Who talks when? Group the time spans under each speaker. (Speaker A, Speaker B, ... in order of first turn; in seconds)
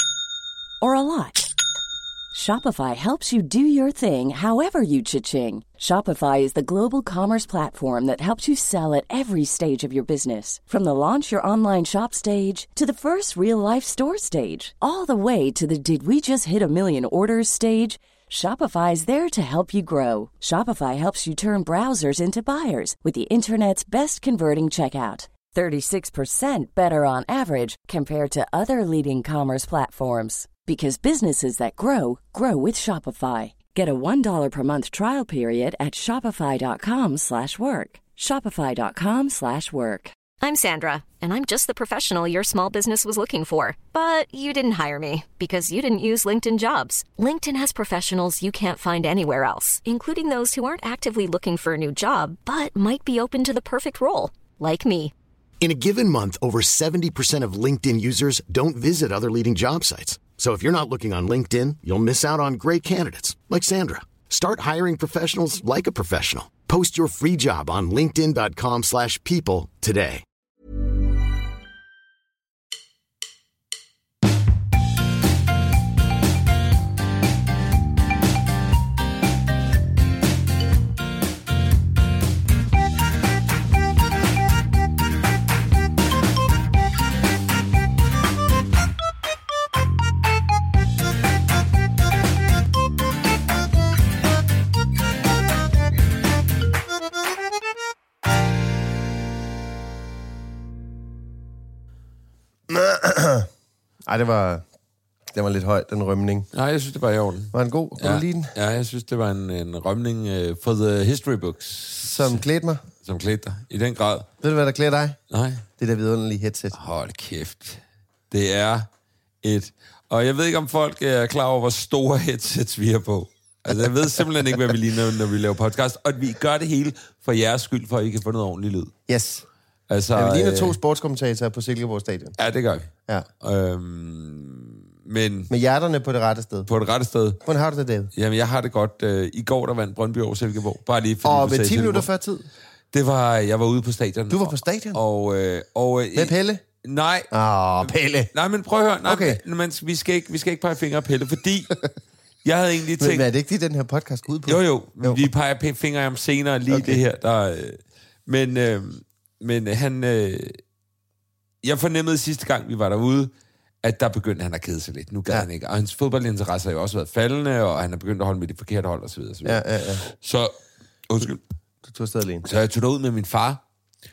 Speaker A: 0.8-1.5, 2.3-40.1
Speaker B: 40.4-55.1
Speaker C: 55.6-70.2
Speaker D: 102.7-103.5, 104.1-104.6, 105.3-106.5, 107.5-108.5, 112.0-112.8, 114.4-115.2, 115.8-116.8, 129.1-129.5, 130.1-132.4, 135.5-136.7, 137.4-138.1, 141.2-142.5, 144.3-145.0, 146.2-146.6, 147.3-148.3, 149.1-149.4, 153.0-155.3, 156.7-157.0, 169.4-170.1, 171.8-172.4
Speaker E: 106.5-112.4, 113.0-114.3, 115.3-115.7, 116.7-118.9, 119.4-128.9, 129.9-130.8, 132.4-132.9, 133.4-135.5, 136.7-137.4, 138.2-142.1, 142.9-147.3, 148.3-151.8, 152.4-153.3, 154.5-160.6, 161.6-163.3, 163.8-170.5, 171.1-171.4, 172.4-173.6